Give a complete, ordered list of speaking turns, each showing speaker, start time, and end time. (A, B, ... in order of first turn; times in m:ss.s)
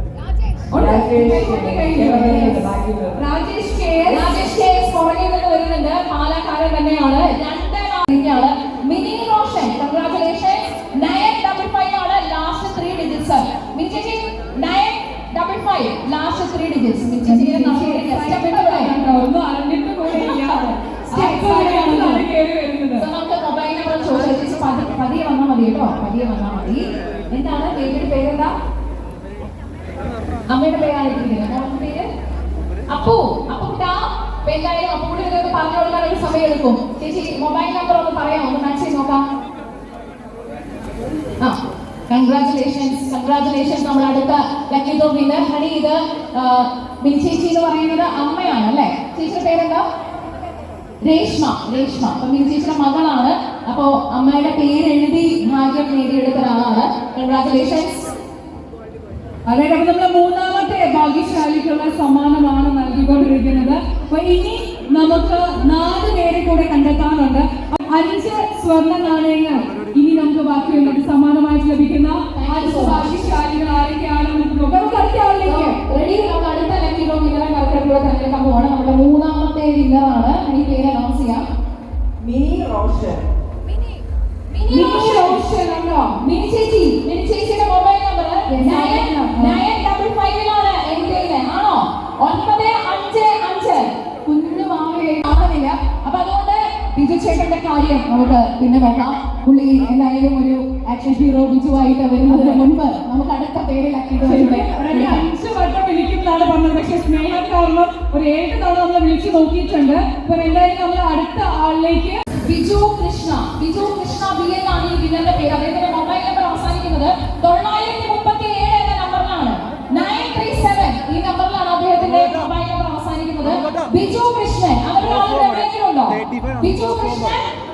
0:00.7-0:04.4 A
0:00.7-0:03.2 B
0:04.1-0:18.9 C
0:17.1-0:23.1 A
0:20.1-0:20.6 C
0:21.1-0:22.2 C
0:23.0-0:28.5 C
0:30.5-0:32.0 C
0:32.9-0:39.2 C
0:42.1-0:49.8 C
0:51.0-0:58.1 C
0:59.5-1:15.7 A
1:12.3-1:13.2 C
1:15.4-1:21.4 C
1:22.2-1:23.2 B
1:24.5-1:25.5 C
1:24.7-1:26.2 A
1:26.1-1:45.3 C
1:28.5-1:29.6 A
1:42.2-1:42.6 A
1:44.2-1:52.2 A
1:52.4-2:07.5 C